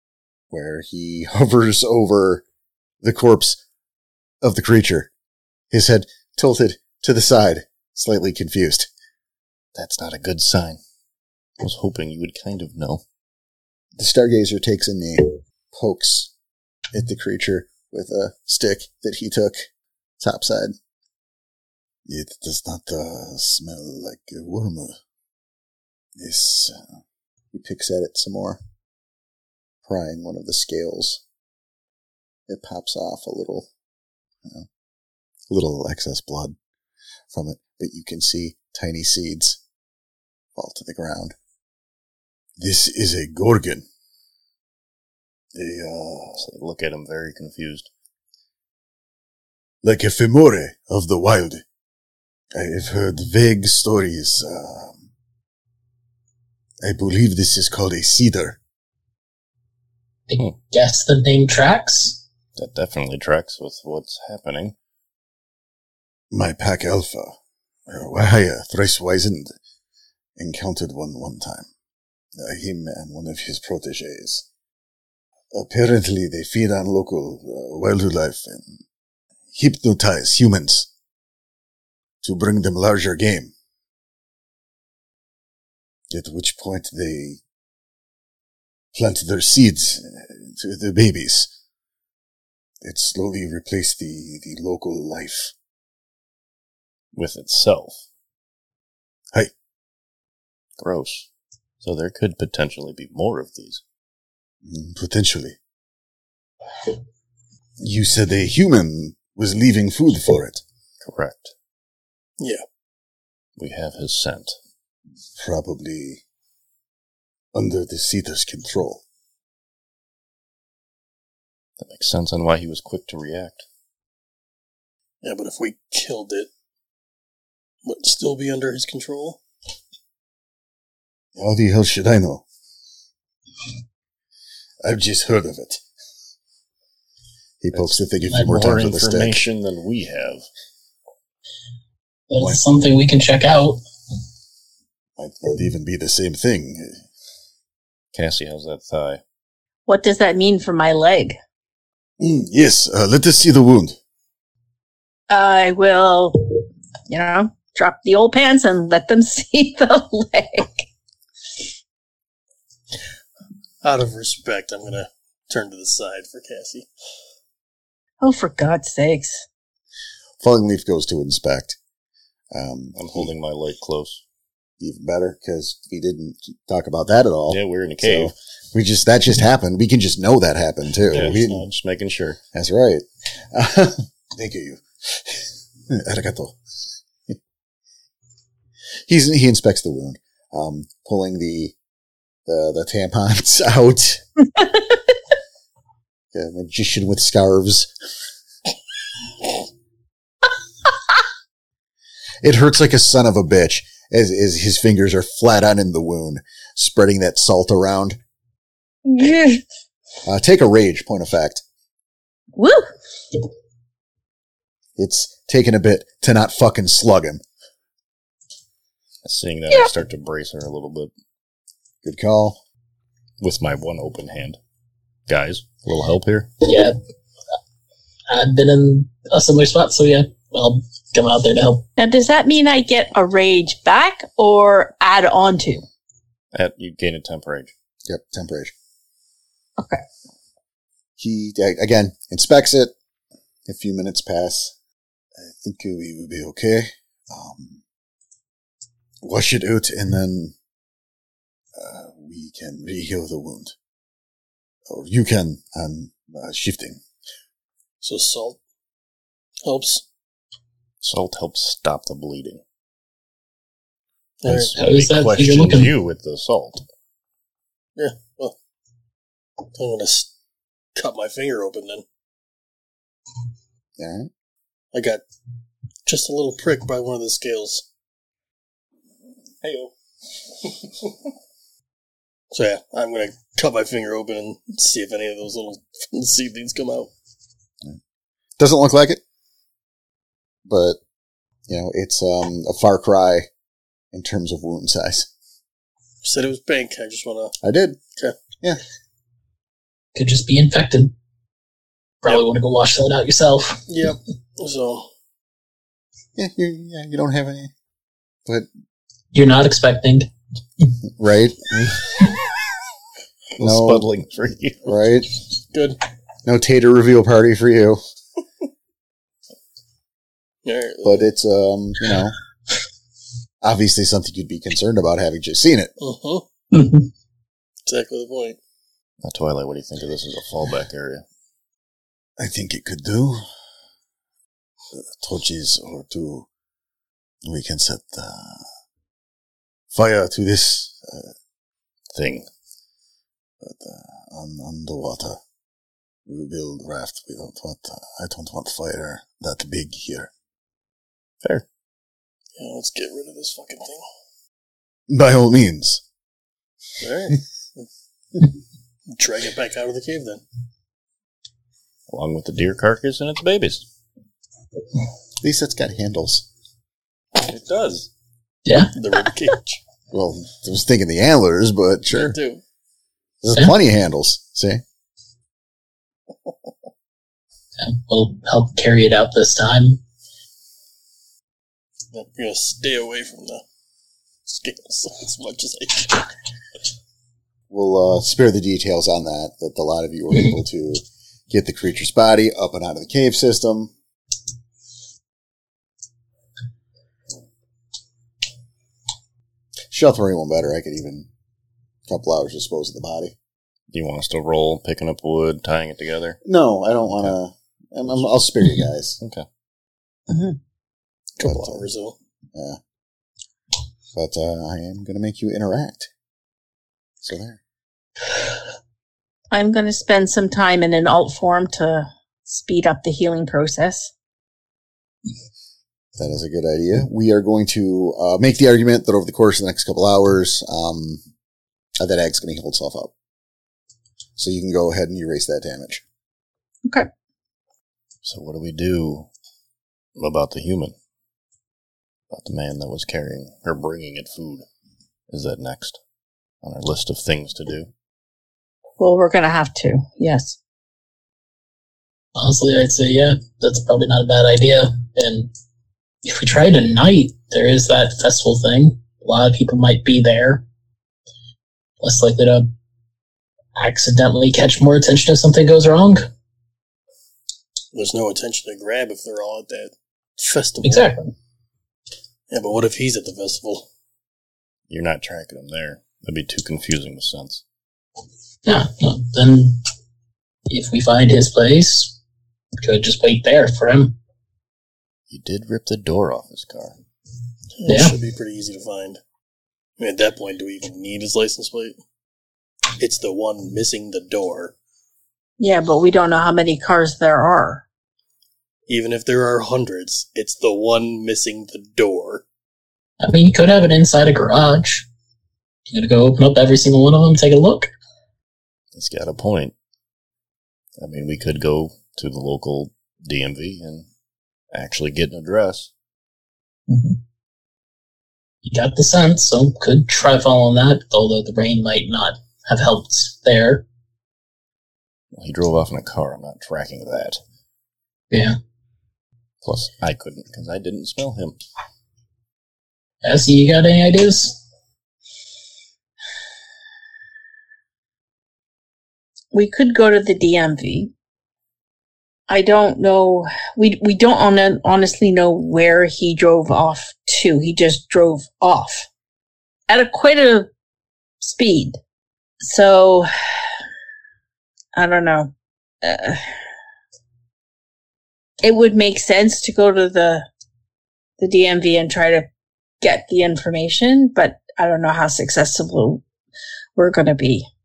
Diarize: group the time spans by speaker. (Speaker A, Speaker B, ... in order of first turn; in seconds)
Speaker A: 0.5-2.4, 3.0-3.6, 4.4-5.1, 5.7-8.9, 14.0-16.3, 16.9-19.7, 20.2-20.7, 22.1-25.0, 26.1-26.9, 27.5-28.6, 29.8-31.2, 32.5-33.7, 35.5-36.5, 37.3-39.6, 40.5-41.3, 42.6-43.9, 45.5-46.5, 49.8-51.6, 52.5-55.0, 56.8-58.6, 66.3-67.3, 67.9-69.5, 70.4-71.7, 72.3-74.4, 75.5-78.8, 79.5-80.9, 82.2-83.5, 86.1-87.4, 88.9-91.5, 92.8-95.5, 104.6-105.6, 107.8-110.6, 115.4-116.2, 117.5-119.0, 131.3-132.4, 134.8-135.8, 137.6-139.4, 145.2-147.0, 152.2-154.0, 170.4-171.8, 172.5-173.3, 174.8-181.7, 182.5-186.6, 189.1-191.7, 192.4-194.2, 196.3-197.9, 202.4-208.2, 210.2-211.6, 215.0-217.4, 222.0-222.6, 238.1-238.7, 241.2-242.9, 243.7-244.7, 245.3-247.8, 249.2-250.5, 251.7-253.7, 254.9-257.0, 274.0-274.3, 288.6-289.2, 290.6-291.0, 291.7-293.5, 294.1-295.3, 297.6-298.0, 306.4-307.7, 311.2-312.1, 313.6-314.1, 314.8-315.3, 316.4-318.0, 321.0-322.3, 323.6-325.9, 332.4-333.4, 334.9-336.5, 337.4-338.6, 339.9-341.3, 343.6-345.4, 346.3-350.3, 355.1-356.0, 365.4-366.4, 370.1-372.4, 373.4-374.8, 387.7-393.9, 399.9-401.3, 402.1-403.3, 406.4-409.2, 411.4-411.8, 414.1-416.1, 417.2-417.6, 426.1-431.2, 432.0-433.1, 434.4-436.0
Speaker B: 9.7-10.8, 11.6-13.0, 46.4-47.9, 62.5-64.7, 97.1-98.0, 100.8-101.3, 101.8-103.8, 111.0-111.5, 113.6-114.6, 121.8-123.6, 137.7-140.4, 148.1-149.2, 172.9-174.2, 177.5-178.3, 181.1-182.4, 219.2-221.1, 223.4-224.6, 225.3-226.6, 236.5-237.7, 261.0-262.6, 264.4-266.8, 279.6-279.9, 313.6-314.9, 329.2-331.2, 342.1-342.4, 362.1-363.9, 367.4-368.1, 403.9-406.4, 438.2-439.3, 440.1-440.9, 442.3-444.6, 445.3-446.0, 446.6-447.9, 474.9-477.6, 485.3-486.9, 508.9-509.7, 511.0-514.0, 514.7-515.9, 525.3-527.4, 529.6-531.6
Speaker C: 60.3-62.2, 142.3-143.8, 226.6-226.9, 228.3-231.8, 264.8-265.9, 300.1-301.1, 302.2-303.9, 309.3-310.3, 326.7-327.1, 368.6-368.9, 377.8-380.0, 452.4-455.5, 456.2-460.6, 462.0-462.7, 463.7-466.3, 470.8-471.3, 478.6-479.8, 480.7-482.2, 482.8-484.2, 487.9-488.2, 503.2-505.1, 505.9-507.9, 516.9-517.2, 518.6-523.8, 528.3-528.5, 533.2-534.6
Speaker D: 125.2-126.5, 127.8-129.4, 163.8-166.9, 258.0-258.6, 259.6-260.0, 264.4-264.7, 268.0-268.5, 269.8-270.3, 270.9-272.0, 274.9-275.2, 276.1-277.8, 282.5-287.1, 296.2-297.5, 303.9-305.1, 315.7-316.0, 320.6-321.2, 326.0-326.4, 327.9-328.6, 352.6-354.0, 357.0-357.9, 359.1-360.4, 368.9-369.8, 372.1-372.6, 382.1-383.6, 384.4-386.3, 411.4-412.1, 467.9-471.1, 472.5-473.9, 487.8-489.2, 490.0-492.0, 493.0-494.7, 498.9-502.4
Speaker E: 149.9-151.4, 155.3-156.4, 157.1-160.9, 168.2-169.4, 209.0-209.6, 212.6-212.9, 232.0-235.8, 239.8-240.0, 410.3-410.6, 419.5-424.1, 449.0-450.6, 495.6-497.8, 539.5-541.1, 542.5-549.1, 549.9-550.7, 551.4-552.0, 552.6-553.3, 554.9-555.5, 556.0-556.4, 558.6-560.5, 561.4-562.5, 563.0-566.2, 566.9-567.7